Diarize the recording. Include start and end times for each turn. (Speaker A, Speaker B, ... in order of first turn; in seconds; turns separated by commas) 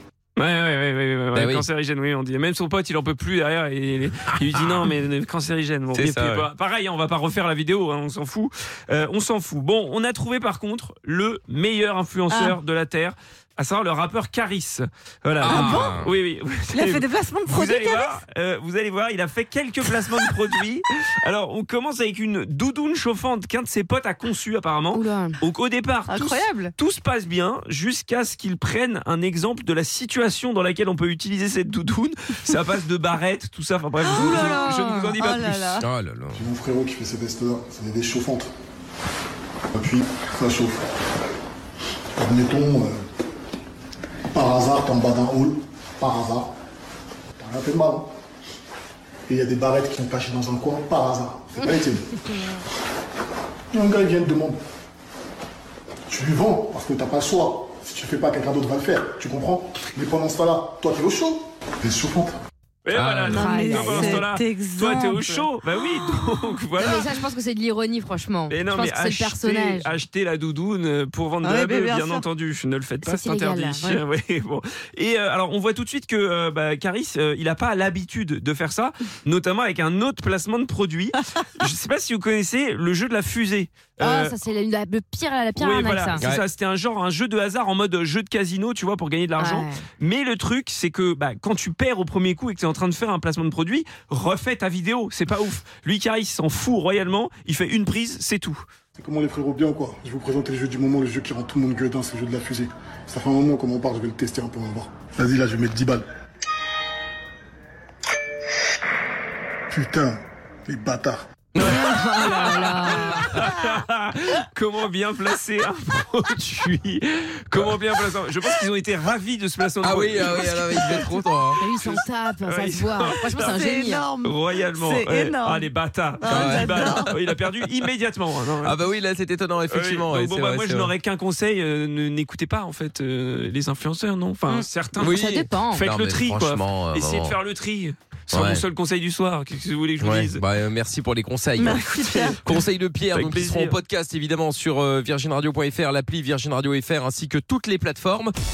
Speaker A: 0.3-35.8, Speaker B: 1.3-1.6, Speaker B: 5.9-6.5, Speaker C: 12.3-12.6, Speaker B: 15.4-16.1, Speaker C: 15.5-16.0, Speaker C: 16.7-18.2, Speaker D: 24.9-25.4, Speaker C: 26.0-26.7, Speaker C: 34.0-35.8, Speaker D: 34.2-35.1, Speaker B: 35.8-36.4, Speaker E: 36.3-38.5, Speaker E: 39.7-40.9, Speaker E: 42.1-43.0, Speaker E: 44.3-46.5, Speaker E: 47.4-48.1, Speaker E: 49.3-52.2, Speaker E: 53.7-54.6, Speaker E: 56.1-62.4, Speaker A: 62.8-67.1, Speaker B: 62.9-63.4, Speaker D: 63.3-64.3, Speaker C: 63.3-65.5, Speaker D: 66.8-70.0, Speaker A: 68.5-84.3, Speaker C: 71.4-72.2, Speaker D: 73.0-74.0, Speaker D: 84.0-86.2, Speaker A: 85.5-98.7, Speaker B: 86.2-86.4, Speaker D: 89.4-89.8, Speaker E: 99.0-106.0, Speaker E: 109.7-111.3, Speaker D: 111.6-113.4, Speaker A: 111.6-121.1, Speaker B: 117.5-117.8, Speaker B: 119.8-121.6, Speaker D: 121.6-124.1, Speaker A: 121.8-123.5, Speaker C: 123.4-125.7, Speaker A: 124.2-128.8, Speaker C: 126.2-127.1, Speaker B: 126.3-127.1, Speaker B: 128.6-130.9, Speaker A: 129.7-140.4, Speaker B: 135.0-137.4, Speaker D: 135.0-135.8, Speaker B: 138.3-138.7, Speaker B: 140.0-148.3, Speaker C: 141.6-142.5, Speaker A: 142.0-142.3, Speaker A: 143.1-143.8